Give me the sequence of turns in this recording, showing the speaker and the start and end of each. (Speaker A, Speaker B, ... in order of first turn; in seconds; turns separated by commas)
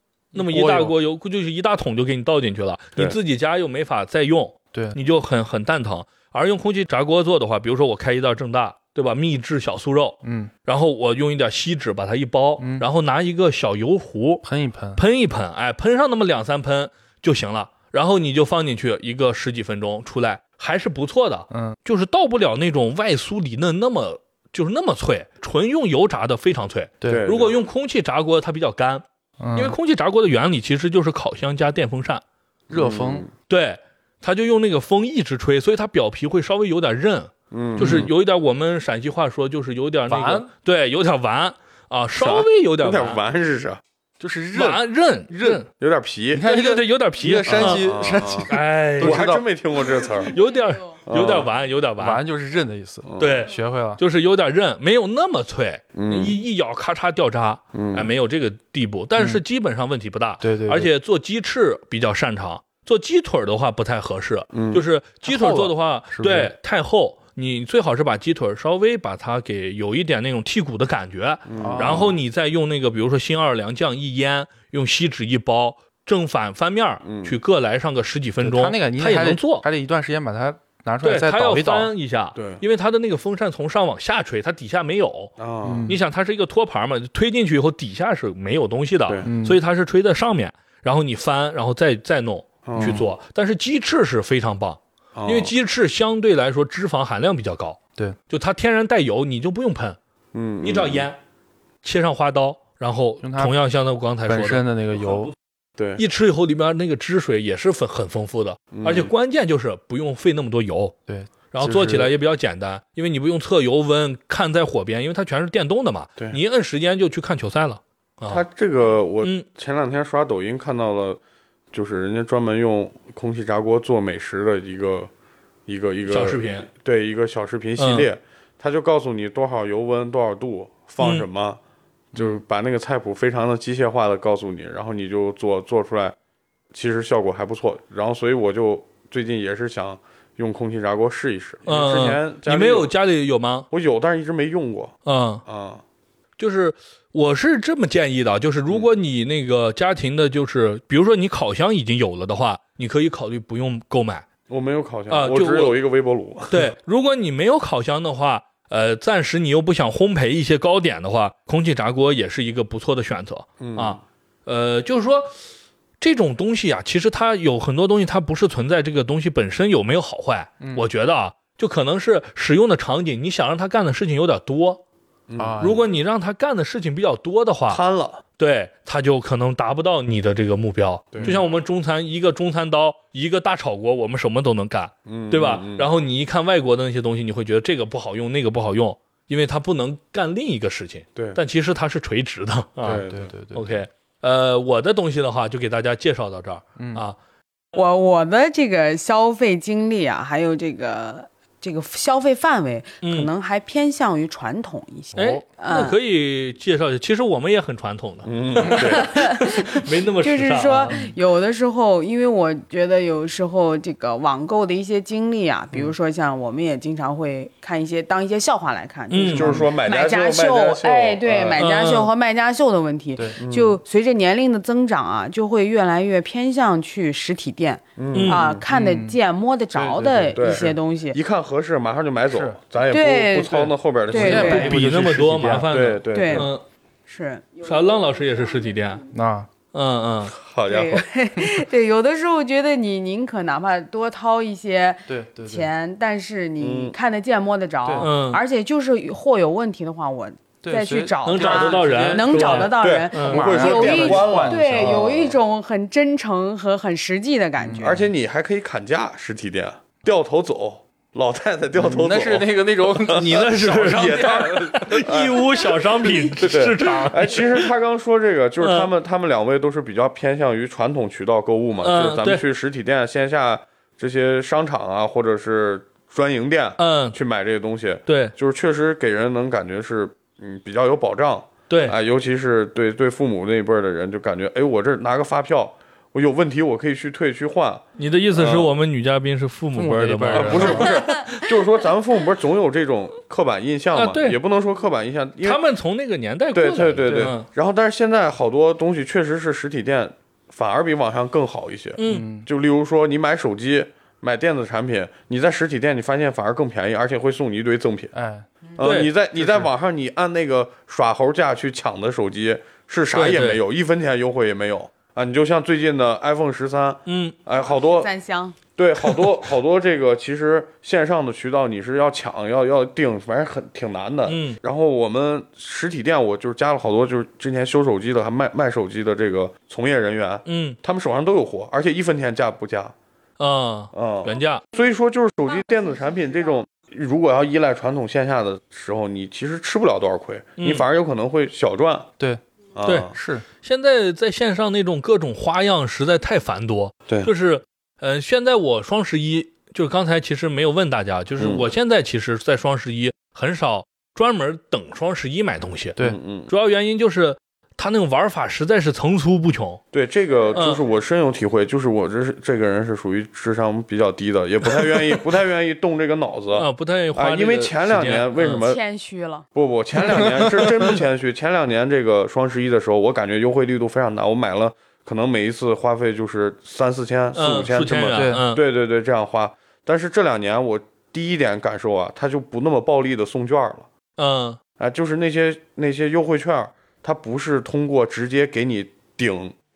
Speaker A: 0.3-14.4, Speaker B: 0.4-0.9, Speaker B: 4.7-5.0, Speaker B: 10.2-10.5, Speaker B: 12.6-12.8, Speaker B: 14.4-15.0, Speaker A: 14.9-32.2, Speaker B: 21.5-21.8, Speaker B: 27.0-27.2, Speaker C: 27.0-27.5, Speaker B: 29.4-29.8, Speaker B: 32.7-33.3, Speaker C: 32.7-33.3, Speaker A: 33.5-43.2, Speaker C: 37.5-38.1, Speaker B: 37.8-38.1, Speaker B: 40.1-40.5, Speaker C: 42.1-43.8, Speaker B: 44.2-45.6, Speaker A: 44.5-45.7, Speaker C: 45.8-46.5, Speaker B: 46.3-49.4, Speaker A: 46.4-47.9, Speaker C: 47.5-50.3, Speaker A: 48.5-49.3, Speaker A: 50.2-52.2, Speaker C: 51.0-51.5, Speaker B: 52.0-54.0, Speaker C: 53.0-53.4, Speaker A: 53.2-79.7, Speaker C: 55.9-56.4, Speaker C: 57.7-58.1, Speaker B: 59.2-59.4, Speaker B: 60.4-60.9, Speaker C: 64.5-64.8, Speaker B: 65.2-66.5, Speaker C: 71.5-72.1, Speaker B: 71.6-72.1, Speaker C: 77.0-77.4, Speaker B: 78.4-81.9, Speaker A: 81.0-100.0, Speaker C: 82.3-82.6, Speaker C: 85.4-86.0, Speaker B: 85.6-86.0, Speaker B: 89.2-89.6, Speaker C: 92.6-93.1, Speaker B: 92.8-93.0, Speaker C: 95.1-95.5, Speaker C: 100.3-101.1, Speaker A: 100.6-101.2, Speaker A: 101.8-105.3, Speaker B: 103.2-103.5, Speaker B: 104.2-105.3, Speaker C: 105.8-106.0, Speaker A: 106.0-111.0, Speaker C: 108.7-109.1, Speaker B: 111.1-112.1, Speaker A: 111.5-118.4, Speaker C: 118.3-121.2, Speaker C: 121.7-125.1, Speaker C: 125.7-131.6, Speaker A: 126.1-126.7, Speaker A: 127.8-128.1, Speaker A: 131.0-131.2, Speaker B: 132.1-132.4, Speaker C: 132.1-136.1, Speaker C: 136.7-142.9, Speaker A: 141.7-143.7, Speaker C: 143.7-144.9, Speaker A: 145.0-145.4, Speaker C: 145.4-145.8, Speaker A: 146.4-154.2, Speaker C: 154.5-156.7, Speaker A: 155.1-155.8, Speaker A: 156.5-165.3, Speaker C: 163.6-164.0, Speaker A: 166.0-174.8, Speaker C: 175.3-175.6, Speaker B: 175.4-175.8, Speaker A: 175.6-177.8, Speaker C: 177.7-178.2, Speaker A: 178.4-197.2, Speaker C: 181.1-181.4, Speaker B: 181.2-181.4, Speaker C: 185.1-185.9, Speaker C: 191.1-191.4, Speaker C: 192.8-193.3, Speaker B: 192.8-193.7, Speaker B: 196.8-197.0, Speaker D: 197.7-206.0, Speaker A: 203.0-203.3, Speaker B: 205.1-205.4, Speaker A: 205.2-210.9, Speaker C: 208.2-209.1, Speaker D: 208.7-231.2, Speaker A: 219.1-219.6, Speaker C: 219.3-221.6, Speaker A: 221.6-222.1, Speaker C: 223.4-223.8, Speaker C: 228.0-228.6, Speaker A: 228.1-228.4, Speaker B: 228.7-229.2, Speaker B: 229.7-230.5, Speaker C: 230.3-235.1, Speaker B: 232.3-232.6, Speaker D: 232.9-234.8, Speaker B: 234.1-235.7, Speaker A: 234.3-236.6, Speaker C: 235.7-236.5, Speaker D: 236.1-236.5, Speaker D: 237.1-237.7, Speaker A: 237.6-239.0, Speaker B: 239.1-239.5, Speaker A: 239.7-240.3, Speaker C: 240.3-241.0, Speaker D: 240.7-258.0, Speaker B: 245.1-245.7, Speaker C: 246.6-246.9, Speaker A: 248.0-248.4, Speaker B: 250.6-255.0, Speaker A: 251.2-253.4, Speaker C: 252.8-255.4, Speaker B: 257.6-258.1, Speaker C: 257.8-288.7, Speaker B: 261.7-265.2, Speaker A: 263.1-267.6, Speaker B: 266.1-267.3, Speaker A: 268.6-268.9, Speaker A: 271.8-272.4, Speaker A: 276.8-277.1, Speaker A: 278.1-278.3, Speaker A: 281.7-281.9, Speaker A: 288.0-291.2, Speaker B: 289.7-291.0, Speaker C: 290.3-295.6, Speaker D: 290.7-291.5, Speaker A: 293.9-294.4, Speaker A: 295.4-297.5, Speaker C: 296.5-308.1, Speaker B: 297.1-297.3, Speaker A: 302.0-302.2, Speaker B: 302.1-302.5, Speaker B: 308.1-308.5, Speaker C: 308.8-318.1, Speaker A: 308.8-309.1, Speaker B: 309.3-309.7, Speaker A: 313.1-313.6, Speaker A: 317.1-317.4, Speaker D: 318.0-318.6, Speaker C: 318.8-332.9, Speaker A: 324.2-324.6, Speaker A: 330.4-330.8, Speaker A: 333.4-334.6, Speaker C: 333.9-342.1, Speaker A: 340.6-340.9, Speaker C: 342.7-343.1, Speaker A: 342.8-343.1, Speaker B: 343.1-343.4, Speaker A: 343.6-356.0, Speaker C: 351.4-351.7, Speaker C: 356.0-356.5, Speaker A: 356.5-359.8, Speaker C: 359.9-368.8, Speaker A: 360.5-360.8, Speaker A: 366.5-368.6, Speaker D: 368.5-369.4, Speaker C: 369.5-383.9, Speaker B: 370.1-370.7, Speaker A: 377.3-378.6, Speaker B: 378.1-378.4, Speaker A: 384.2-384.6, Speaker C: 384.8-389.5